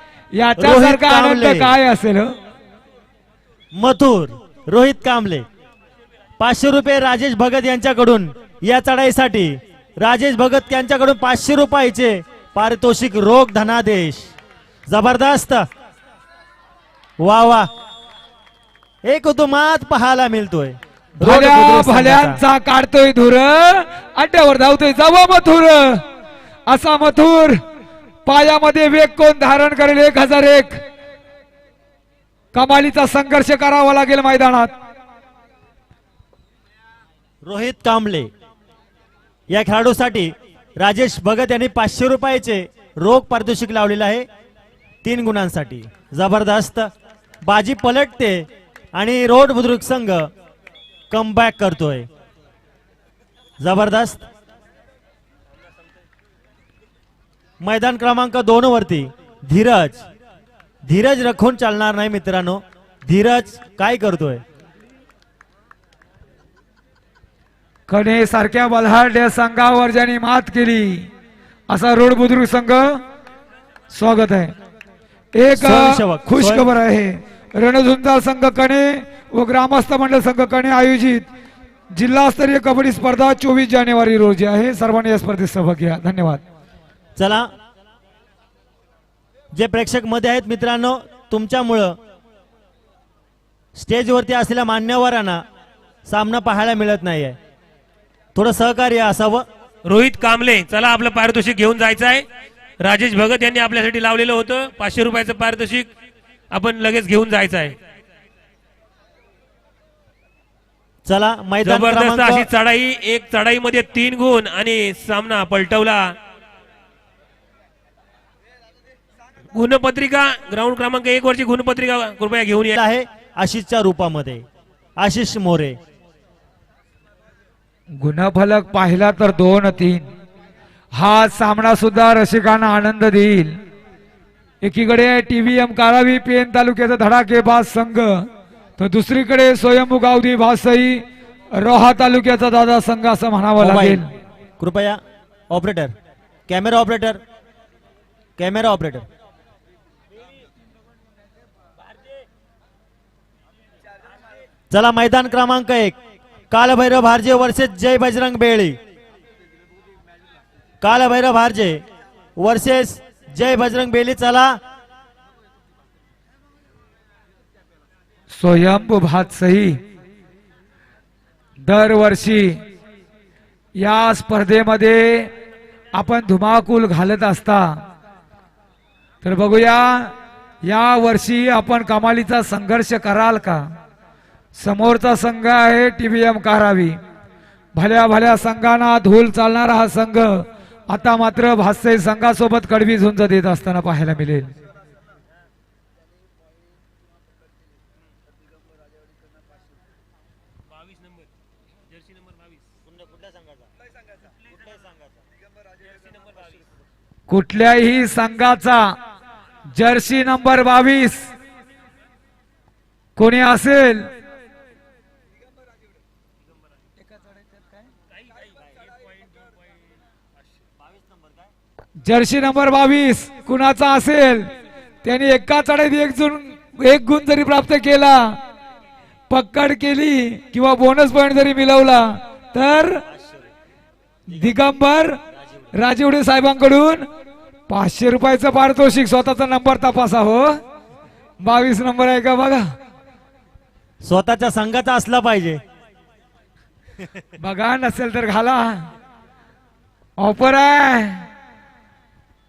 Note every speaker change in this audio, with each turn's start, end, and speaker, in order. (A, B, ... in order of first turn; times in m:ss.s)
0:00.3-0:02.4 A
0:00.6-0:01.7 B
0:03.7-0:05.5 B
0:06.4-0:14.3 B
0:14.9-0:15.7 B
0:17.2-0:17.7 B
0:19.0-0:22.4 B
0:21.2-0:26.0 A
0:26.7-0:27.6 A
0:28.2-0:30.8 A
0:32.5-0:34.7 A
0:37.4-0:38.3 B
0:39.5-0:44.3 B
0:45.0-0:46.9 B
0:47.4-0:50.3 B
0:51.1-0:52.1 B
0:53.6-0:54.3 B
0:57.6-1:00.1 B
1:00.8-1:04.4 B
1:07.9-1:11.1 A
1:11.7-1:13.0 A
1:13.9-1:14.6 A
1:15.4-1:21.3 A
1:15.5-1:16.7 B
1:21.9-1:26.4 A
1:27.2-1:27.5 B
1:29.5-1:32.0 B
1:33.8-1:35.4 B
1:36.1-1:37.4 B
1:38.4-1:39.5 B
1:39.8-1:42.2 C
1:42.8-1:45.9 C
1:46.5-1:47.8 C
1:51.0-1:52.5 B
1:51.6-1:56.2 C
1:59.5-2:02.8 C
2:02.8-2:04.4 B
2:05.0-2:05.8 B
2:08.0-2:10.1 A
2:11.0-2:13.6 A
2:14.6-2:18.3 A
2:18.8-2:24.1 A
2:23.6-2:24.0 B
2:24.6-2:26.0 B
2:26.5-2:27.2 B
2:28.4-2:29.1 B
2:34.7-2:36.0 B
2:36.5-2:38.8 B
2:40.8-2:41.8 B
2:42.4-2:44.6 B
2:48.3-2:49.8 A
2:51.6-2:52.6 A
2:53.8-2:55.3 A
2:55.9-2:57.8 A
2:59.2-3:03.7 A
3:04.6-3:07.0 A
3:07.8-3:14.6 A
3:22.9-3:23.7 B
3:27.3-3:29.0 A
3:29.7-3:31.3 A
3:33.2-3:34.1 A
3:40.8-3:41.2 B
3:42.0-3:44.5 A
3:45.0-3:48.4 A
3:49.3-3:53.0 A
3:53.1-3:53.5 B
3:54.3-3:55.2 A
3:55.3-3:55.7 B
3:55.7-3:57.1 A
3:57.7-4:00.6 A
4:01.4-4:02.7 A
4:04.0-4:05.6 B
4:07.4-4:08.9 A
4:10.2-4:11.3 A